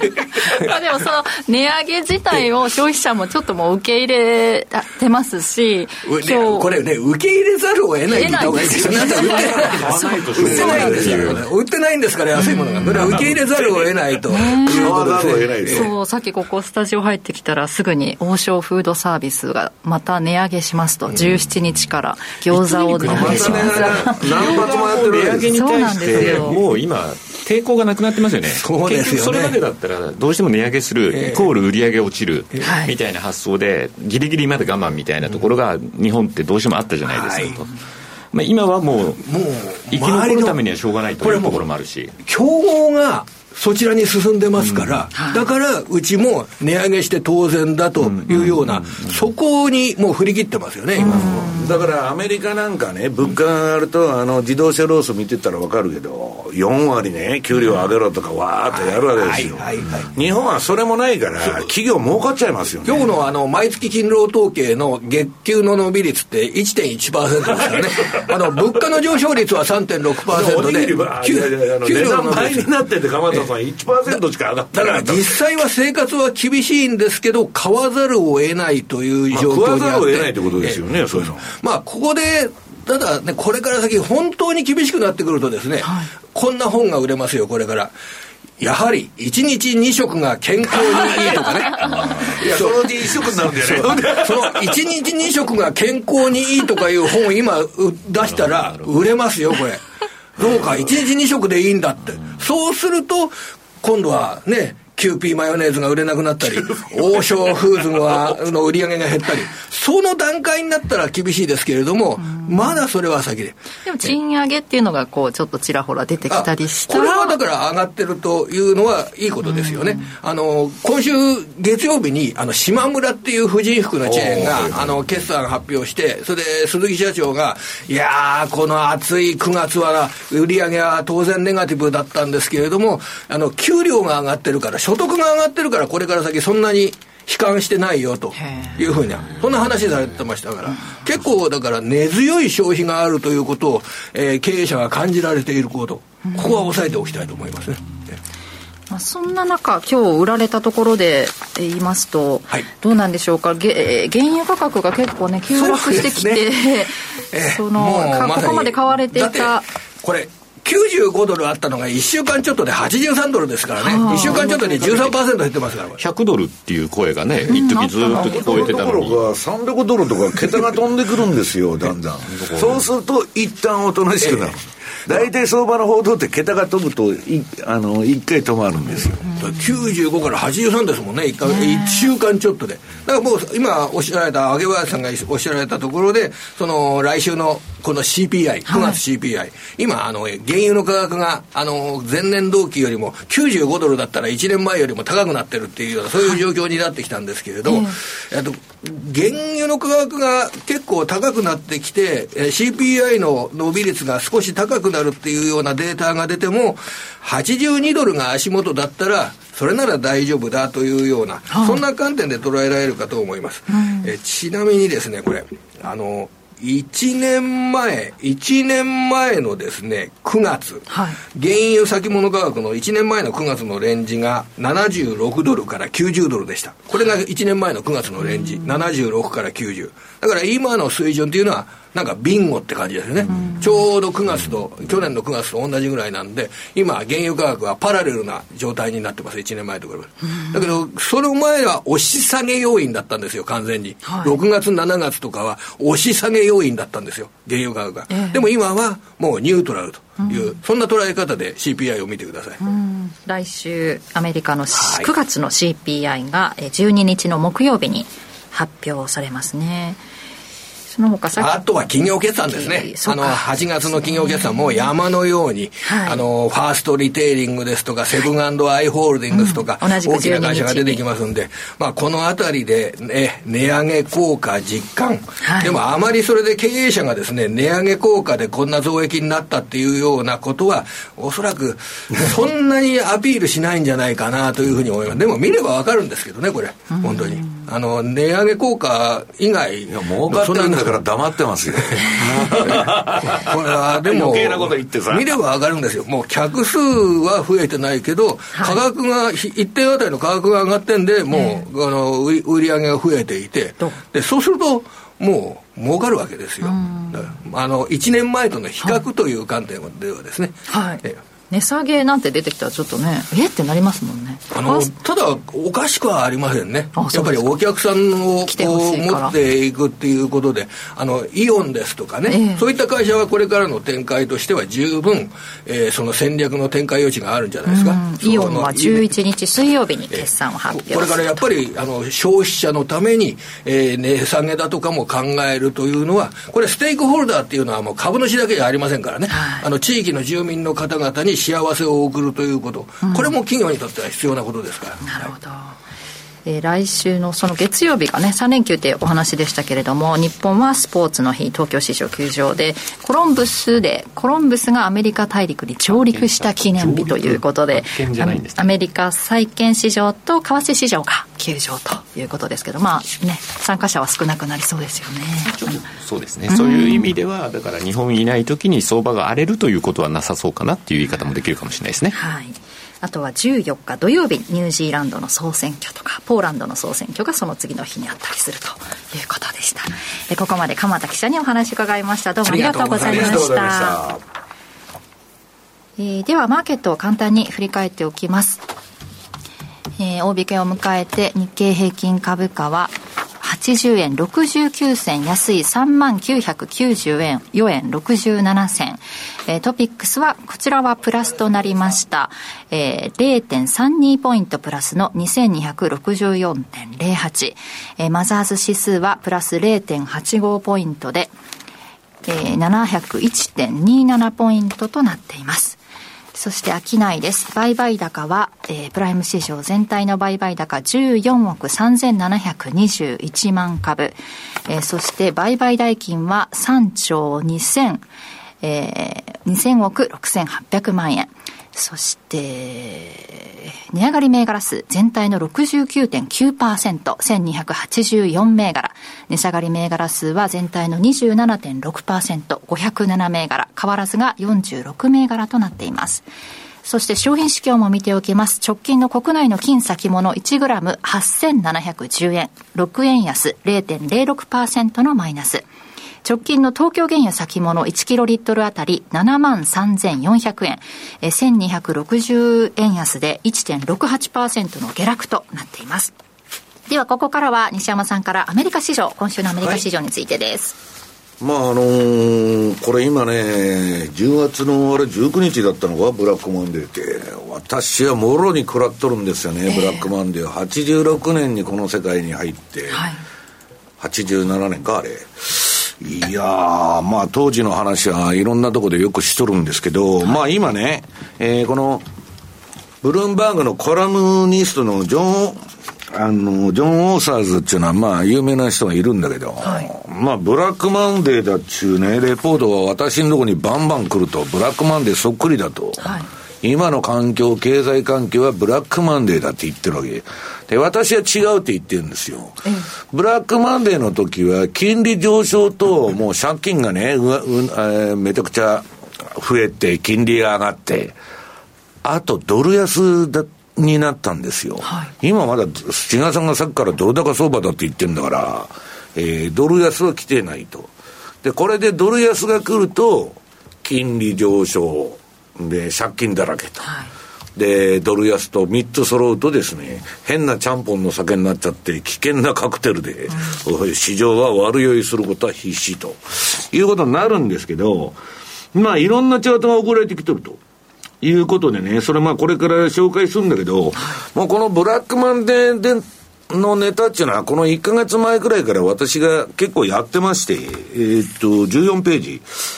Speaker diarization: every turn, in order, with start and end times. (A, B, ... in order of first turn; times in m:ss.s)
0:00.4-0:06.7 A
0:06.0-0:15.9 B
0:08.1-0:11.2 A
0:08.6-0:11.4 C
0:09.1-0:11.4 D
0:12.4-0:13.2 A
0:12.9-0:13.2 C
0:14.3-0:15.0 A
0:14.6-0:15.9 D
0:15.6-0:24.6 A
0:22.5-0:37.7 C
0:23.1-0:26.5 D
0:25.5-0:26.6 A
0:28.5-0:29.6 B
0:31.1-0:31.5 B
0:32.6-0:32.9 A
0:37.1-0:37.6 B
0:38.3-0:39.3 C
0:39.2-0:40.6 B
0:39.9-0:42.1 C
0:41.2-0:41.6 B
0:42.2-0:51.6 B
0:44.6-0:45.0 C
0:45.1-0:45.4 A
0:48.0-0:49.2 C
0:51.0-0:51.8 A
0:51.0-1:03.1 D
0:58.7-1:00.1 B
1:02.8-1:12.7 B
1:07.5-1:08.6 D
1:10.2-1:15.4 D
1:14.7-1:27.9 B
1:19.3-1:21.5 D
1:25.8-1:26.1 A
1:28.6-1:39.8 B
1:32.2-1:34.7 D
1:38.2-1:39.0 C
1:40.4-1:40.8 D
1:40.4-1:53.6 B
1:42.1-1:42.4 C
1:52.2-1:52.8 A
1:53.8-1:57.4 A
1:56.3-2:27.8 B
1:59.4-2:00.1 A
2:04.0-2:04.9 D
2:18.3-2:19.4 A
2:26.2-2:26.7 A
2:28.9-2:39.7 A
2:35.5-2:36.5 B
2:37.3-2:46.0 B
2:43.8-2:44.4 A
2:44.0-2:45.2 C
2:46.0-2:49.2 C
2:47.5-2:48.5 A
2:48.1-2:59.3 D
2:52.2-2:52.8 C
2:54.2-2:54.6 B
2:59.3-2:59.8 A
2:59.4-4:12.6 B
3:01.4-3:02.1 A
3:08.7-3:09.0 A
3:17.6-3:18.0 A
3:31.5-3:31.8 A
3:33.7-3:34.1 A
3:40.9-3:41.2 A
4:04.0-4:04.4 A
4:08.1-4:08.4 A
4:10.2-4:10.6 A
4:12.6-4:20.0 A
4:14.7-4:15.1 B
4:20.9-4:21.6 A
4:21.4-4:51.0 B
4:22.5-4:24.9 A
4:25.8-4:26.2 A
4:29.3-4:31.0 A
4:35.4-4:35.8 A
4:46.9-4:47.6 A
4:49.9-4:55.4 D
4:51.9-5:11.2 B
4:58.5-4:58.8 A
5:01.3-5:01.6 A
5:06.6-5:07.3 A
5:10.7-5:14.9 A
5:14.5-5:29.0 B
5:16.9-5:17.5 A
5:18.5-5:19.3 A
5:22.3-5:22.6 A
5:27.6-5:31.5 A
5:30.1-5:45.0 B
5:39.3-5:39.7 A
5:43.0-5:43.3 A
5:45.0-5:45.8 A
5:46.4-6:05.8 A
5:55.9-5:58.7 C
6:05.5-6:12.2 C
6:06.5-6:07.1 A
6:12.1-6:24.0 A
6:22.4-6:23.5 B
6:22.6-6:24.2 D
6:26.0-6:28.6 A
6:30.0-6:51.3 A
6:52.2-6:55.8 A
6:56.3-7:08.0 A
7:08.6-7:26.2 A
7:26.8-7:35.6 A
7:36.2-7:46.1 A
7:46.9-7:50.7 A
7:51.4-8:03.0 D
7:59.7-8:00.1 A
8:02.9-8:03.2 A
8:04.0-8:12.0 D
8:13.0-8:26.1 D
8:19.6-8:19.9 A
8:26.0-8:26.3 A
8:26.6-8:41.2 D
8:42.0-8:50.9 D
8:44.8-8:45.1 A
8:51.4-8:56.9 D
8:56.8-8:57.1 A
8:57.6-9:08.2 D
9:03.3-9:03.6 A
9:08.7-9:10.6 D
9:11.2-9:22.5 D